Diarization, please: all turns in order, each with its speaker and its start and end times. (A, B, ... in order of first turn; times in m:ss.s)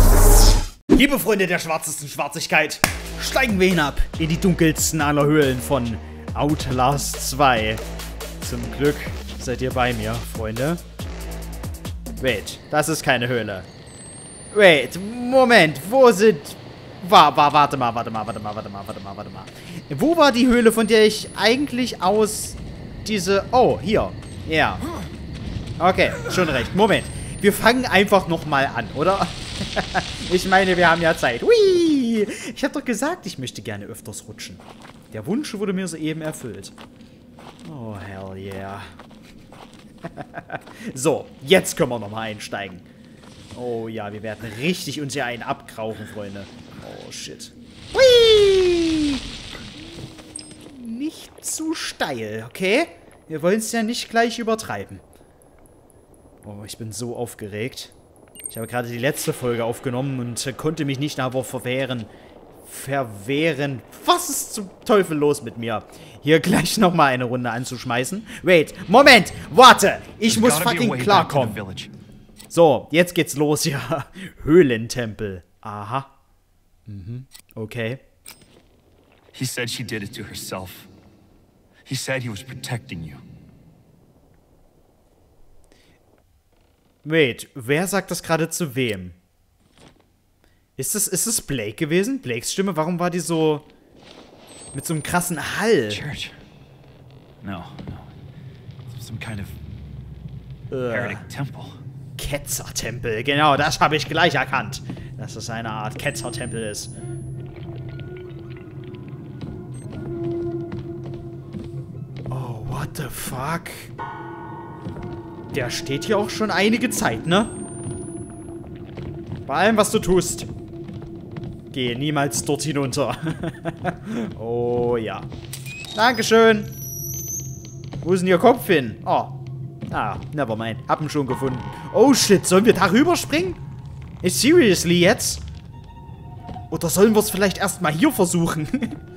0:00.9-0:07.8 A
0:08.4-0:10.8 A
0:12.2-0:13.7 A
0:14.5-0:24.8 A
0:25.8-0:36.7 A
0:37.6-0:38.9 A
0:40.1-0:42.8 A
0:43.6-0:49.2 A
0:50.6-0:55.0 A
0:56.4-0:57.9 A
0:58.5-1:02.1 A
1:02.7-1:11.6 A
1:10.3-1:11.9 B
1:12.5-1:16.1 A
1:16.9-1:18.0 A
1:19.3-1:20.9 B
1:21.9-1:23.2 B
1:27.0-1:29.2 A
1:30.8-1:33.7 A
1:34.7-1:36.0 A
1:35.9-1:36.4 B
1:37.4-1:38.1 B
1:38.9-1:39.6 B
1:40.7-1:41.2 A
1:40.9-1:41.8 B
1:42.2-1:46.9 A
1:52.3-1:53.9 A
1:55.5-1:57.5 A
1:59.5-2:00.5 A
2:01.7-2:05.3 A
2:06.0-2:06.7 A
2:08.0-2:09.4 A
2:09.9-2:13.6 A
2:14.2-2:15.4 A
2:16.7-2:19.0 A